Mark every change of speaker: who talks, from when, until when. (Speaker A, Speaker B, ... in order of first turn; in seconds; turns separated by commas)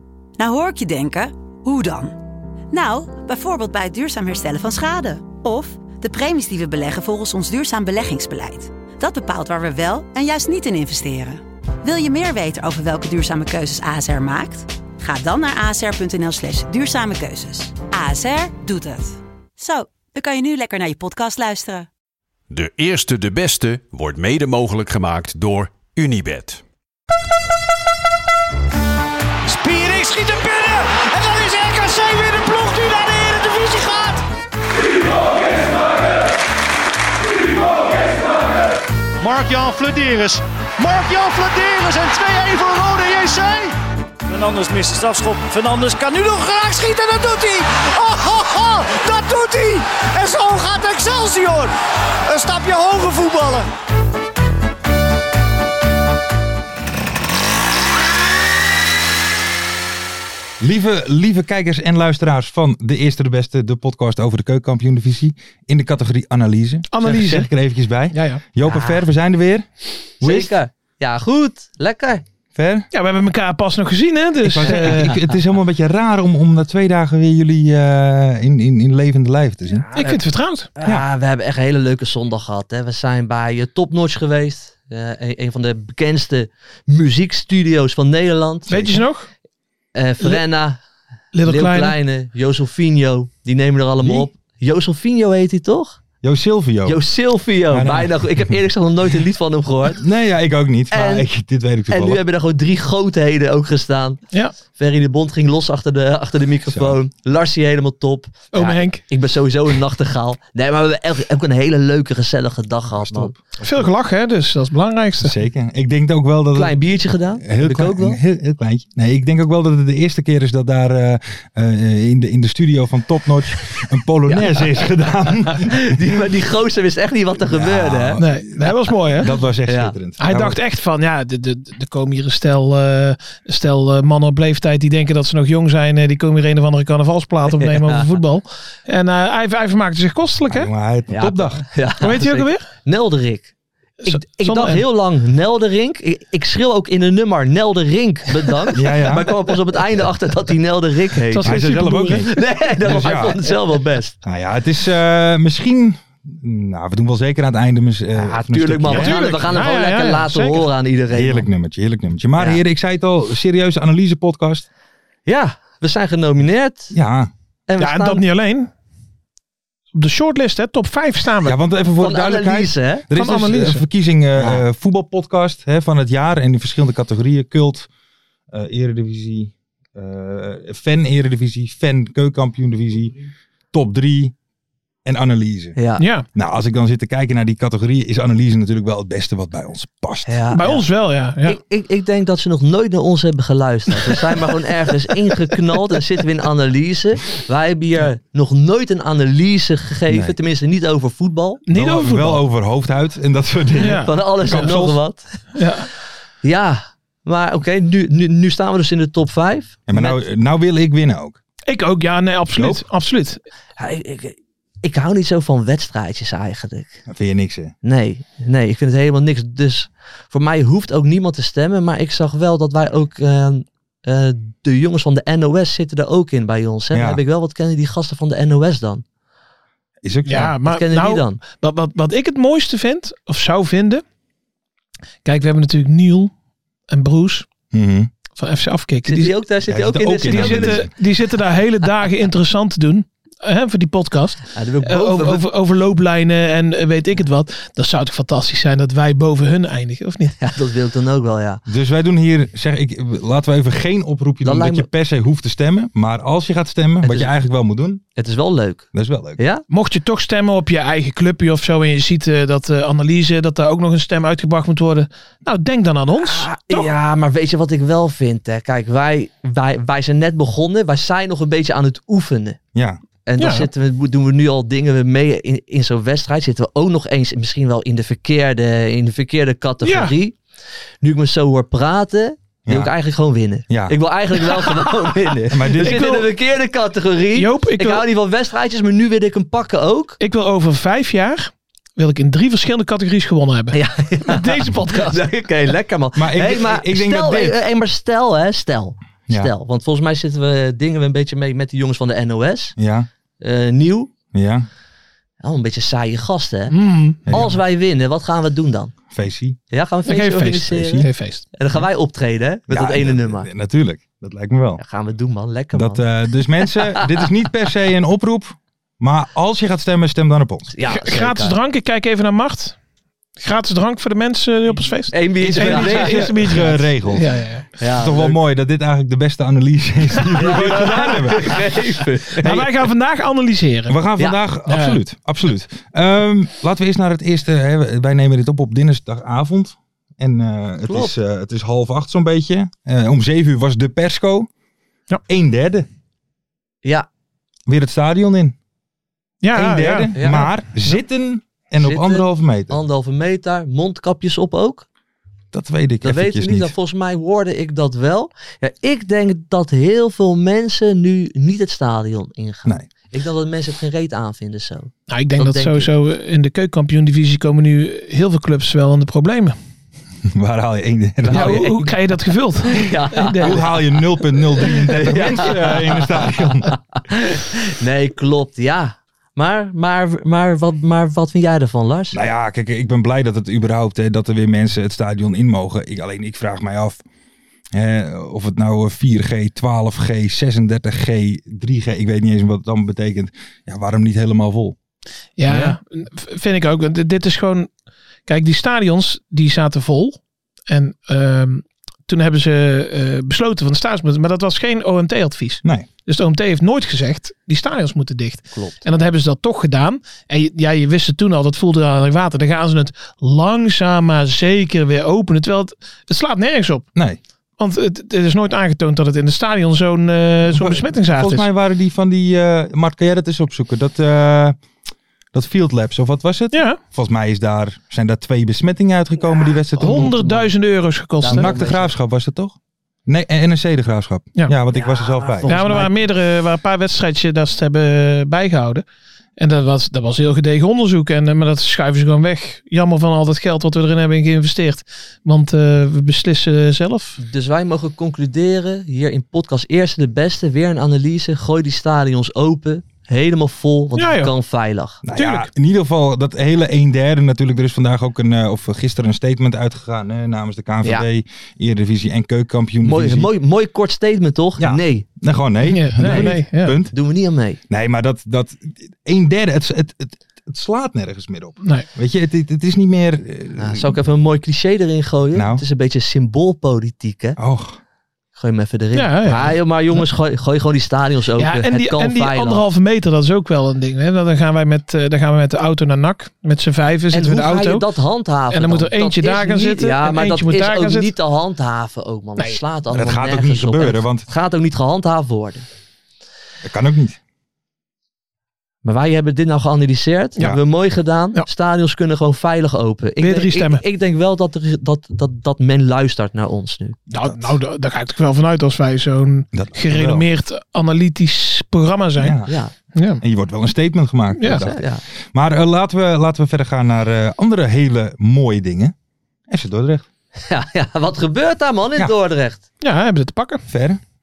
Speaker A: 0.4-2.2, Speaker A: 2.7-21.9, Speaker B: 22.5-26.6, Speaker C: 29.4-34.2, Speaker C: 39.2-43.8, Speaker C: 44.3-51.7, Speaker C: 52.3-53.7, Speaker D: 60.6-69.7, Speaker E: 66.9-67.5, Speaker E: 68.1-68.4, Speaker F: 68.6-69.1, Speaker D: 70.2-70.5, Speaker F: 70.2-72.2, Speaker D: 72.5-72.9, Speaker E: 72.9-75.2, Speaker D: 74.4-79.9, Speaker F: 74.6-75.1, Speaker F: 79.8-88.8, Speaker E: 80.0-80.7, Speaker E: 88.7-89.3, Speaker D: 88.7-89.0, Speaker F: 90.0-90.8, Speaker E: 91.3-92.0, Speaker F: 91.4-96.0, Speaker D: 94.0-94.3, Speaker D: 96.2-97.0, Speaker F: 96.9-100.0, Speaker D: 97.7-98.6, Speaker D: 100.0-102.2, Speaker F: 100.9-101.3, Speaker F: 101.9-113.3, Speaker D: 106.7-107.0, Speaker E: 108.5-109.0, Speaker D: 113.0-113.9, Speaker E: 113.6-115.3, Speaker D: 115.2-116.8, Speaker F: 116.5-118.2, Speaker D: 117.4-125.9, Speaker F: 124.3-124.7, Speaker F: 125.5-128.2, Speaker D: 127.4-130.6, Speaker E: 128.2-129.3, Speaker F: 129.7-130.0, Speaker E: 130.2-140.7, Speaker F: 137.5-138.0, Speaker D: 140.5-141.7, Speaker F: 141.1-143.5, Speaker E: 142.0-142.7, Speaker F: 144.0-151.6, Speaker E: 144.1-144.8, Speaker D: 148.7-149.3, Speaker E: 151.3-152.3, Speaker D: 151.4-153.4, Speaker F: 152.2-154.2, Speaker D: 154.2-159.3, Speaker F: 158.1-161.5, Speaker E: 158.9-160.7, Speaker D: 161.1-164.7, Speaker F: 162.4-162.6, Speaker F: 165.3-166.9, Speaker D: 166.9-167.3, Speaker F: 167.7-168.2, Speaker E: 167.8-168.7, Speaker E: 169.9-171.6, Speaker D: 171.4-177.9, Speaker F: 172.0-173.1, Speaker E: 173.1-173.8, Speaker F: 174.4-174.7, Speaker D: 178.5-183.2, Speaker D: 183.7-184.3, Speaker D: 185.1-185.8, Speaker F: 185.8-186.1, Speaker E: 186.0-186.3, Speaker D: 186.3-190.4, Speaker F: 190.3-190.9, Speaker E: 190.5-191.6, Speaker F: 191.4-201.6, Speaker D: 200.1-200.3, Speaker E: 201.7-202.4, Speaker D: 201.7-205.0, Speaker E: 203.8-204.8, Speaker F: 204.0-205.4, Speaker E: 205.6-205.9, Speaker F: 206.4-210.2, Speaker D: 209.9-211.4, Speaker E: 211.7-213.4, Speaker D: 212.5-212.8, Speaker F: 213.8-217.0, Speaker D: 217.1-217.7, Speaker F: 217.8-229.0, Speaker D: 226.9-227.2, Speaker D: 230.0-230.5, Speaker E: 230.3-234.0, Speaker F: 230.6-231.4, Speaker E: 235.2-236.3, Speaker E: 236.9-237.5, Speaker D: 237.7-238.1, Speaker E: 238.3-239.3, Speaker F: 239.1-240.8, Speaker D: 239.7-240.9, Speaker E: 240.3-250.4, Speaker F: 244.5-245.4, Speaker F: 250.4-251.6, Speaker D: 251.7-258.0, Speaker F: 254.4-254.9, Speaker F: 257.0-257.3, Speaker F: 258.2-259.6, Speaker D: 258.9-259.4, Speaker E: 259.7-266.9, Speaker F: 266.2-272.6, Speaker D: 272.7-273.0, Speaker F: 273.2-280.4, Speaker E: 273.4-273.7, Speaker E: 279.8-280.1, Speaker F: 281.0-290.2, Speaker D: 282.7-282.9, Speaker D: 283.7-284.0, Speaker D: 285.5-286.1, Speaker E: 285.7-286.3, Speaker E: 287.3-288.0, Speaker E: 290.2-295.2, Speaker F: 293.7-302.8, Speaker D: 296.2-297.6, Speaker D: 302.8-303.1, Speaker F: 303.4-304.1, Speaker D: 304.3-304.7, Speaker F: 305.4-308.9, Speaker E: 306.7-307.5, Speaker D: 307.3-307.6, Speaker D: 309.1-309.6, Speaker F: 309.7-313.5, Speaker E: 310.1-311.4, Speaker D: 312.7-314.8, Speaker F: 314.8-316.1, Speaker D: 315.7-320.7, Speaker F: 316.7-317.2, Speaker F: 320.7-321.6, Speaker E: 320.9-322.8, Speaker E: 323.4-327.7, Speaker F: 325.1-326.3, Speaker D: 325.5-331.8, Speaker F: 327.8-328.4, Speaker F: 330.4-332.6, Speaker E: 332.4-334.0, Speaker D: 333.9-344.5, Speaker E: 334.7-335.0, Speaker F: 340.9-341.1, Speaker D: 345.3-345.9, Speaker D: 347.7-348.6, Speaker E: 349.4-350.5, Speaker D: 349.5-352.8, Speaker F: 350.1-350.5, Speaker F: 351.8-354.9, Speaker D: 355.5-356.7, Speaker F: 356.0-365.9, Speaker E: 365.1-369.6, Speaker D: 370.3-371.7, Speaker F: 371.3-371.9, Speaker E: 371.3-373.6, Speaker F: 372.6-373.6, Speaker D: 373.4-376.7, Speaker F: 374.5-382.2, Speaker D: 382.1-387.0, Speaker D: 387.7-394.8, Speaker E: 395.4-397.7, Speaker D: 395.4-395.8, Speaker E: 398.3-416.9, Speaker F: 408.5-408.8, Speaker E: 417.6-421.4, Speaker D: 420.5-424.6, Speaker D: 425.3-430.2, Speaker E: 426.5-426.8, Speaker F: 429.2-430.5, Speaker E: 429.8-431.8, Speaker F: 431.2-431.9, Speaker D: 431.3-432.6, Speaker D: 433.1-435.6, Speaker F: 434.7-435.9, Speaker E: 435.5-438.8, Speaker E: 439.4-447.2, Speaker F: 447.2-455.0, Speaker E: 454.0-454.3, Speaker D: 455.0-463.3, Speaker E: 455.1-455.5, Speaker F: 462.8-465.1, Speaker D: 464.6-466.9, Speaker E: 465.7-466.8, Speaker F: 466.0-467.6, Speaker D: 467.7-474.0, Speaker E: 471.6-471.9, Speaker F: 473.6-477.4, Speaker D: 475.3-475.6, Speaker D: 477.4-477.8, Speaker F: 478.4-482.6, Speaker E: 478.9-479.6, Speaker E: 481.4-487.9, Speaker F: 487.1-495.7, Speaker E: 488.5-491.1, Speaker D: 492.9-494.3, Speaker D: 496.6-497.2, Speaker F: 498.8-507.1, Speaker E: 503.2-503.8, Speaker E: 507.1-512.4, Speaker D: 509.5-510.3, Speaker D: 512.2-512.5, Speaker F: 512.5-512.7, Speaker E: 513.0-513.2, Speaker D: 513.2-518.9, Speaker E: 514.4-514.6, Speaker F: 514.5-515.0, Speaker D: 519.5-520.1, Speaker F: 520.4-522.6, Speaker E: 522.8-523.6, Speaker D: 523.7-524.0